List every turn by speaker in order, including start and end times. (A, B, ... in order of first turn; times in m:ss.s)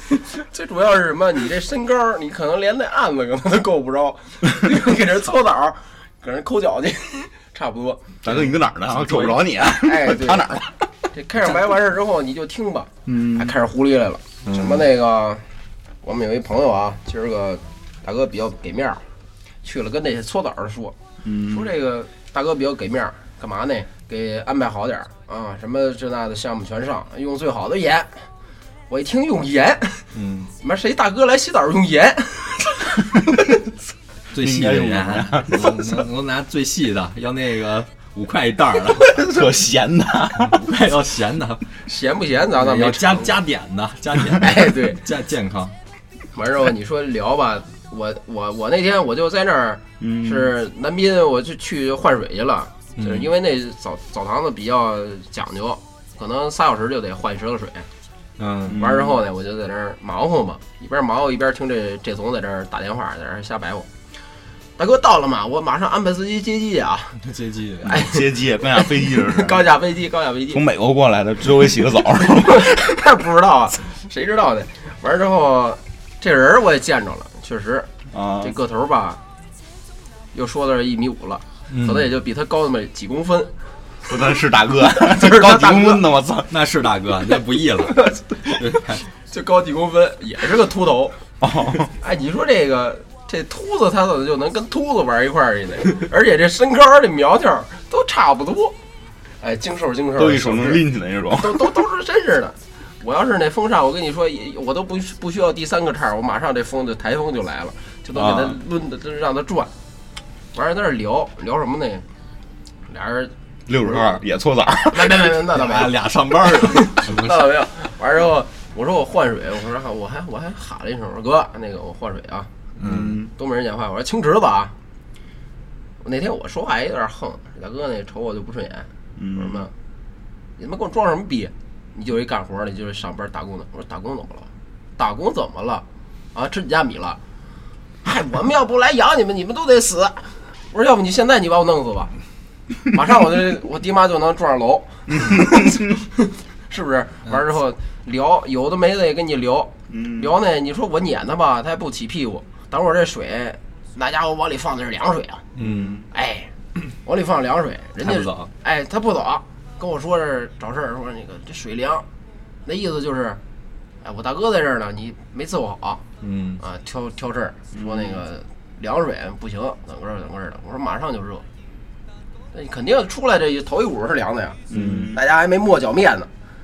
0:00.2-0:08.2 A
0:08.2-0:10.8 B
0:08.3-0:09.4 C
0:09.6-0:15.4 A
0:13.1-0:13.6 B
0:14.4-0:14.8 C
0:16.0-0:19.0 A
0:19.6-0:21.0 A
0:21.2-0:21.7 B
0:21.5-0:28.3 A
0:28.9-0:33.1 A
0:30.1-0:30.5 C
0:34.3-0:39.2 C
0:34.4-0:36.0 B
0:39.0-0:40.6 B
0:40.4-0:41.8 C
0:41.9-0:43.4 A
0:42.6-0:45.8 C
0:44.4-0:45.0 A
0:46.3-0:57.9 A
0:50.0-0:50.5 B
0:53.0-0:53.3 C
0:58.4-0:58.8 C
0:58.7-0:59.2 B
0:58.7-1:03.9 A
1:04.8-1:07.2 A
1:07.2-1:08.0 C
1:07.9-1:09.7 B
1:07.9-1:10.6 A
1:10.5-1:13.0 B
1:12.3-1:19.2 A
1:18.1-1:18.6 B
1:20.3-1:23.5 A
1:21.7-1:22.1 C
1:24.0-1:26.5 B
1:24.9-1:26.1 A
1:26.5-1:29.0 C
1:28.0-1:31.2 A
1:31.4-1:31.9 B
1:32.0-1:38.8 A
1:39.4-1:40.8 A
1:40.2-1:41.8 B
1:41.4-1:49.7 A
1:48.2-1:48.6 B
1:50.5-1:52.0 A
1:52.9-1:54.2 A
1:53.7-1:55.5 B
1:54.9-2:02.5 A
1:55.5-1:57.5 C
2:02.8-2:03.2 C
2:02.8-2:03.3 B
2:03.3-2:04.7 A
2:06.0-2:09.7 A
2:09.2-2:09.7 B
2:10.6-2:17.2 A
2:18.0-2:22.1 A
2:22.9-2:35.5 A
2:29.9-2:30.3 B
2:35.6-2:36.0 C
2:35.6-2:36.1 B
2:36.1-2:36.5 A
2:37.0-2:42.0 A
2:38.0-2:38.5 C
2:42.6-2:43.4 A
2:44.0-2:46.0 A
2:46.2-2:46.6 C
2:46.6-2:51.4 A
2:47.7-2:48.2 B
2:52.5-2:56.3 A
2:54.7-2:55.2 B
2:54.7-2:55.1 C